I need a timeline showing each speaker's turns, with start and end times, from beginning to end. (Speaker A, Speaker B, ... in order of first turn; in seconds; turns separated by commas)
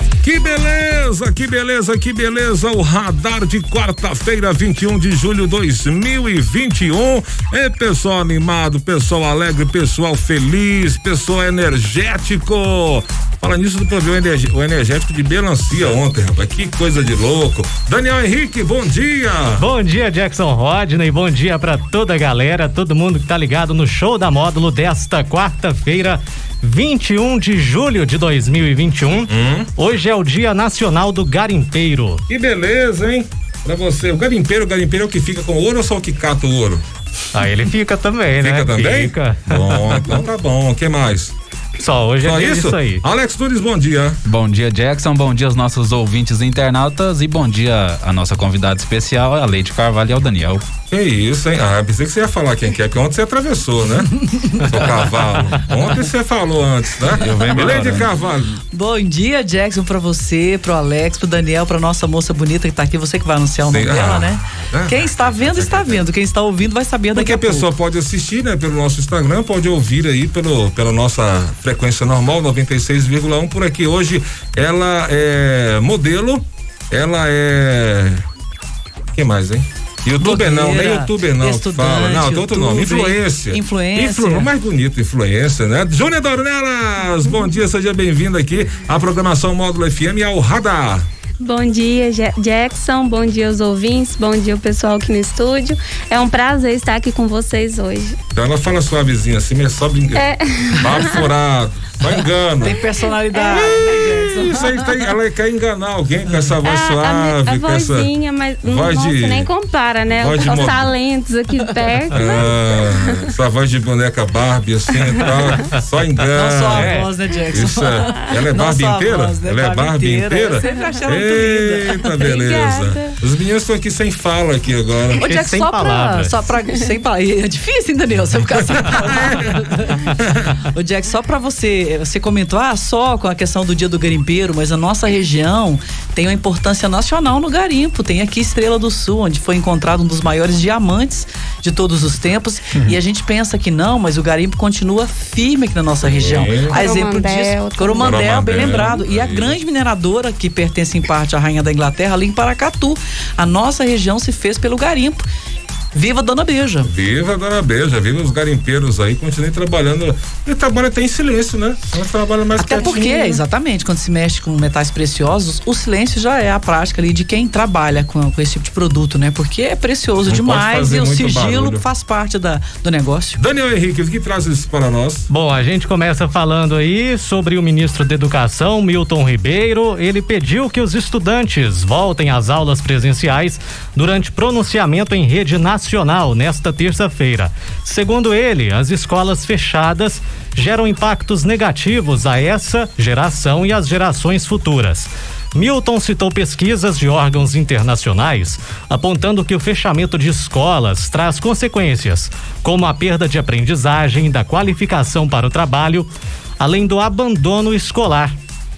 Speaker A: 0.2-19.7, Speaker B: 19.6-32.2, Speaker A: 29.3-29.7, Speaker A: 32.3-36.8, Speaker B: 37.3-40.2, Speaker A: 38.4-41.3, Speaker B: 41.8-43.0, Speaker A: 42.2-44.2, Speaker C: 44.3-50.7, Speaker A: 50.9-58.6, Speaker D: 54.5-54.8, Speaker C: 57.1-58.1, Speaker D: 57.4-57.8, Speaker D: 58.7-67.7, Speaker A: 63.6-66.0, Speaker A: 67.1-78.2, Speaker A: 79.1-91.1, Speaker D: 80.2-84.5, Speaker E: 91.4-98.2, Speaker A: 98.3-102.8, Speaker E: 100.1-101.3, Speaker D: 102.6-105.2, Speaker E: 103.3-104.0, Speaker A: 103.4-108.1, Speaker E: 106.6-113.3, Speaker A: 108.6-109.5, Speaker A: 110.1-110.9, Speaker D: 110.5-110.8, Speaker A: 112.1-125.2, Speaker E: 115.2-115.6, Speaker D: 116.3-122.0, Speaker B: 116.8-117.1, Speaker E: 120.6-121.1, Speaker E: 122.2-123.2, Speaker D: 125.2-155.2, Speaker B: 125.2-126.3, Speaker A: 128.7-130.6, Speaker A: 146.0-146.8, Speaker E: 146.7-148.2, Speaker A: 148.0-149.6, Speaker D: 155.9-156.9, Speaker A: 156.8-163.4, Speaker D: 162.6-173.4, Speaker A: 170.3-171.8, Speaker A: 173.4-175.3, Speaker B: 175.3-208.4